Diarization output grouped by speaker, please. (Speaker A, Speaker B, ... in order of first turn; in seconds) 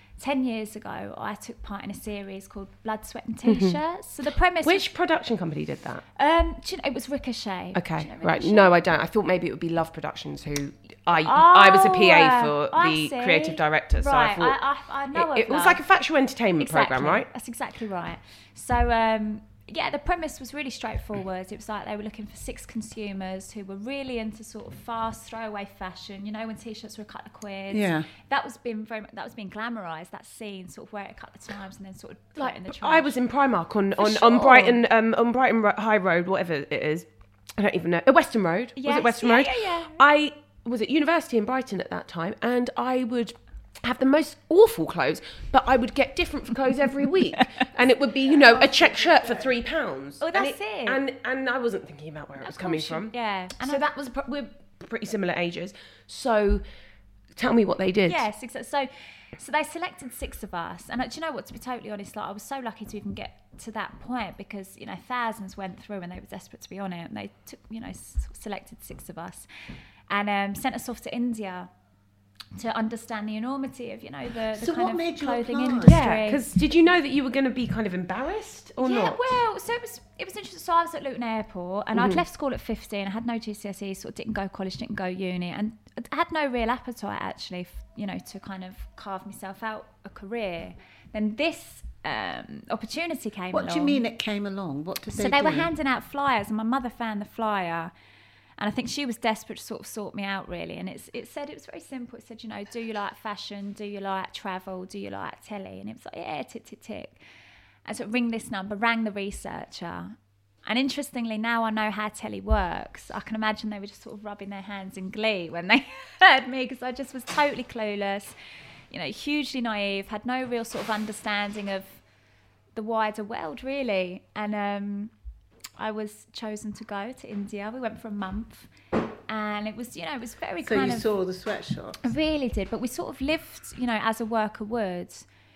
Speaker A: 0.2-4.8, 6.2-8.7, 11.1-15.8, 16.6-33.1, 34.0-34.8, 38.8-40.0, 50.2-51.0, 52.4-53.9, 58.1-69.5, 70.1-71.7, 72.6-76.4, 78.8-94.0, 95.1-97.9, 98.6-107.2, 107.9-118.3, 118.9-122.0, 122.8-125.1, 125.8-128.7, 129.3-131.1, 132.0-135.3
Speaker B: 3.5-3.8, 4.6-6.0, 7.8-14.6, 15.1-17.3, 32.4-56.6, 57.4-58.2, 75.8-79.4, 82.0-82.2
Speaker C: 27.7-28.1, 48.3-49.5, 74.5-76.0, 93.5-95.7, 130.6-132.0